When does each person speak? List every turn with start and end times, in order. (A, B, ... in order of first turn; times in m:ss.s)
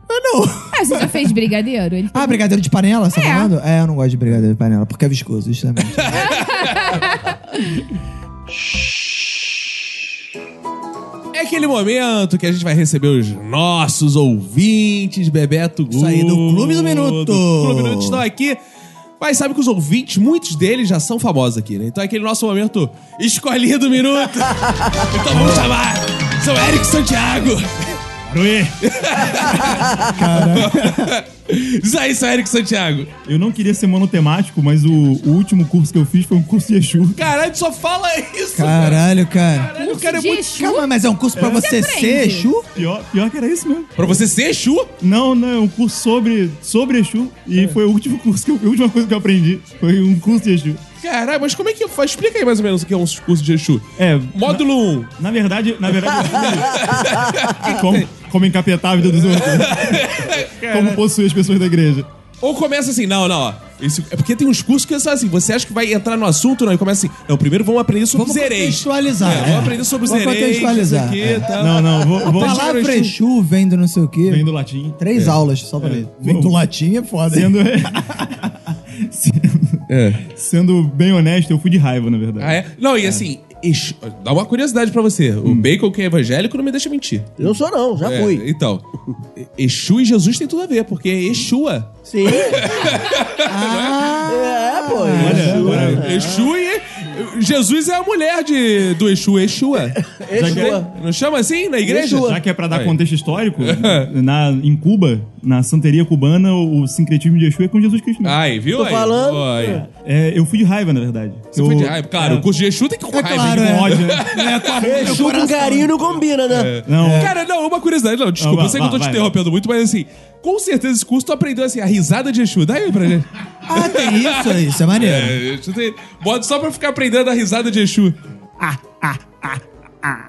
0:00.1-0:01.1 A
0:00.7-0:02.4 B
0:02.1-0:06.2 A
0:03.1-0:03.5 B
0:06.0-0:07.0 C
0:06.1-0:07.6 B
0:11.3-0:18.6 C
0:15.9-0:18.2 A
0:19.2-0:27.9 C
0:25.3-0:25.7 A
0:28.3-0:28.8 D
0:28.8-0:33.1 C
0:30.0-0:31.1 A
0:33.2-0:37.2 D
0:37.2-0:40.4 C
0:38.5-0:39.7 A
0:39.8-0:40.8 B
0:40.5-0:42.7 A
0:41.4-0:41.6 D
0:41.4-0:42.5 B
0:42.7-0:44.2 D
0:44.0-0:44.9 C
0:45.0-0:50.8 D
0:51.0-0:55.1 C
0:54.0-0:54.6 D
0:55.2-0:57.0 D
0:56.3-0:58.1 C
0:57.6-1:00.0 D
0:59.3-1:01.0 C
1:00.7-1:02.1 D
1:02.4-1:13.1 C
1:08.1-1:11.6 A
1:11.6-1:13.0 D
1:12.2-1:17.6 A
1:14.2-1:16.6 D
1:17.3-1:18.5 D
1:19.0-1:22.6 D
1:19.9-1:20.2 C
1:22.4-1:28.8 C
1:27.4-1:28.4 E
1:29.4-1:34.2 C
1:32.1-1:33.0 E
1:33.4-1:36.0 A
1:34.3-1:36.5 E
1:35.2-1:36.0 D
1:35.2-1:43.0 C
1:39.8-1:40.9 E
1:40.3-1:40.8 D
1:41.8-1:42.4 E
1:42.1-1:48.4 D
1:43.6-1:44.1 C
1:48.2-1:49.9 C
1:48.7-1:49.9 E
1:50.0-1:52.4 D
1:51.5-1:55.2 C
1:53.1-1:55.9 A
1:53.5-1:54.2 D
1:54.8-1:56.8 E
1:56.5-2:08.2 C
1:56.8-1:57.3 D
1:57.0-1:57.3 A
1:58.4-1:59.3 D
2:03.6-2:05.4 A
2:08.6-2:10.1 A